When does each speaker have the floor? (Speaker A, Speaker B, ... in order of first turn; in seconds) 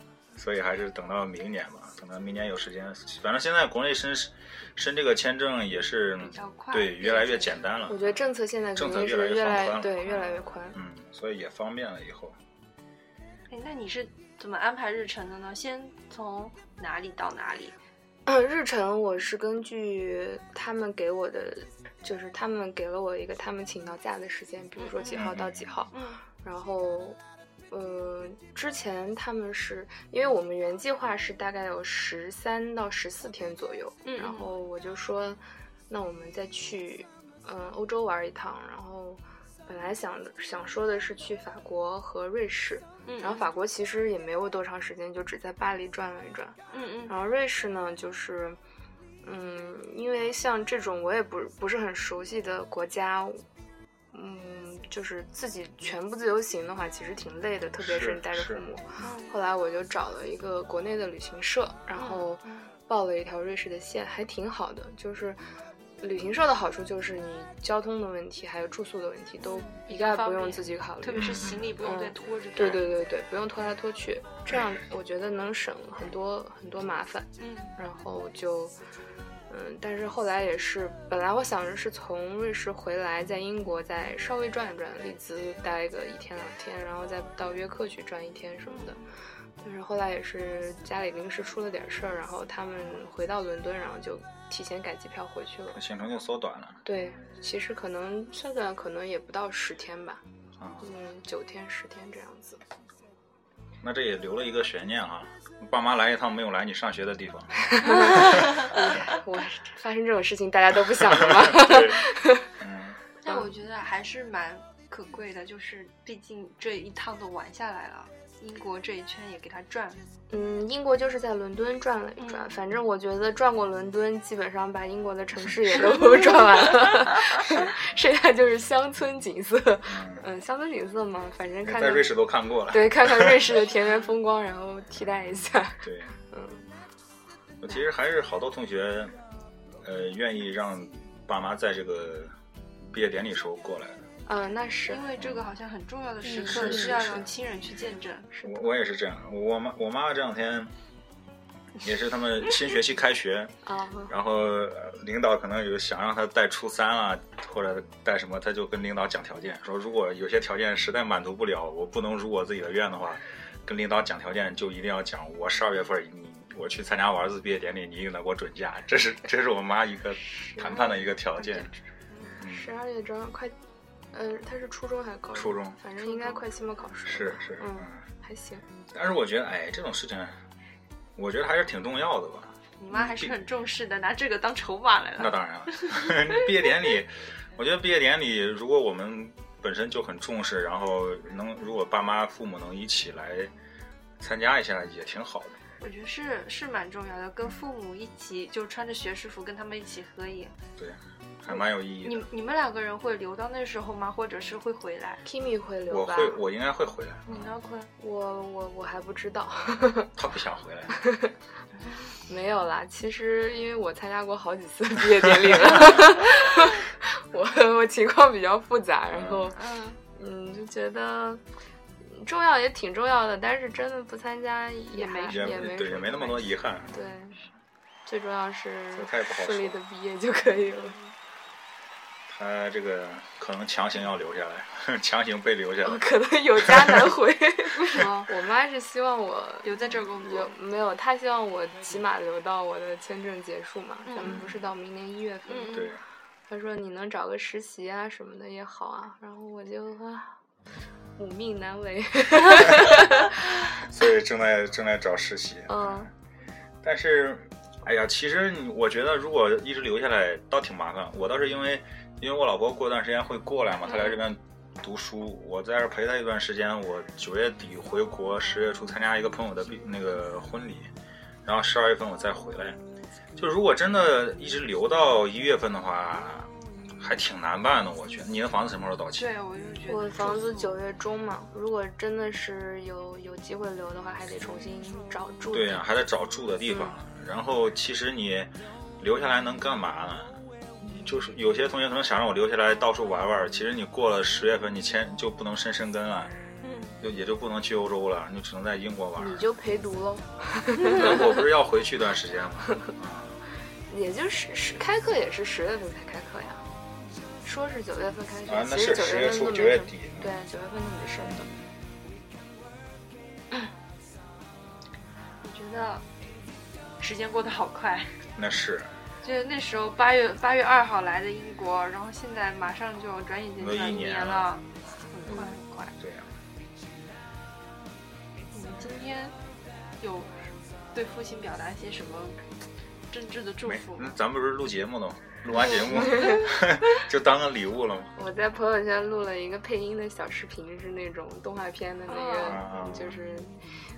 Speaker A: 0.3-8.2, 8.8-12.4, 25.1-25.6, 57.8-58.6, 71.2-71.7, 95.8-96.8, 100.6-100.8, 103.8-108.3, 111.1-112.1, 112.6-113.0, 129.9-130.2, 131.6-133.6, 135.8-136.1, 137.6-139.2, 139.8-142.3, 142.9-144.0, 145.2-145.5, 146.4-147.2, 148.4-150.7, 151.8-153.5, 154.1-171.7, 172.4-172.7, 175.3-175.8, 177.1-178.0, 178.9-180.4, 181.2-183.3, 185.2-193.5, 194.2-195.6, 200.8-202.3, 205.9-207.5, 210.2-211.0, 215.2-216.1, 219.1-219.5, 225.3-226.9, 228.9-229.8, 232.3-237.1, 244.2-244.6, 245.7-246.0, 253.8-256.1, 256.8-270.9, 271.4-272.8, 273.4-279.3, 285.5-290.4, 290.9-296.3, 297.0-299.4, 300.9-303.4, 308.5-310.3, 318.4-319.0, 323.6-324.5, 326.0-326.3, 333.7-338.1, 342.4-343.2
Speaker B: 6.2-7.6, 13.5-17.8, 24.8-25.3, 25.9-26.2, 34.0-34.5, 43.1-43.5, 46.7-47.1, 59.0-59.4, 62.0-62.7, 69.4-72.9, 77.4-77.8, 88.8-89.0, 113.2-120.0, 122.2-122.5, 126.1-126.5, 144.9-148.3, 171.4-172.4, 176.0-176.4, 182.8-186.5, 195.8-200.6, 201.5-205.2, 207.3-207.9, 219.5-220.0, 225.0-225.6, 237.8-238.3, 239.6-240.5, 244.1-244.5, 245.5-245.9, 263.9-264.2, 279.1-280.8, 296.6-297.0, 315.4-316.1, 317.0-318.2, 319.2-326.0, 328.5-329.4, 330.0-332.4, 333.1-334.2, 335.6-336.5, 342.1-342.6
Speaker C: 7.9-10.8, 18.3-27.2, 27.7-48.6, 49.2-53.4, 54.1-65.4, 66.0-78.8, 79.5-89.0, 89.6-95.8, 96.8-100.2, 100.8-102.6, 107.6-112.5, 120.3-136.7, 144.3-145.1, 146.2-147.3, 153.7-154.1, 170.2-171.0, 172.4-173.6, 174.1-178.7, 205.2-206.4, 208.0-210.1, 211.0-211.3, 212.2-219.6, 220.1-221.4, 222.0-227.4, 228.1-231.0, 235.8-245.9, 246.5-250.4, 251.2-253.6, 255.7-256.1, 279.9-285.8, 299.2-301.4, 303.9-306.6, 307.4-311.5, 338.2-343.6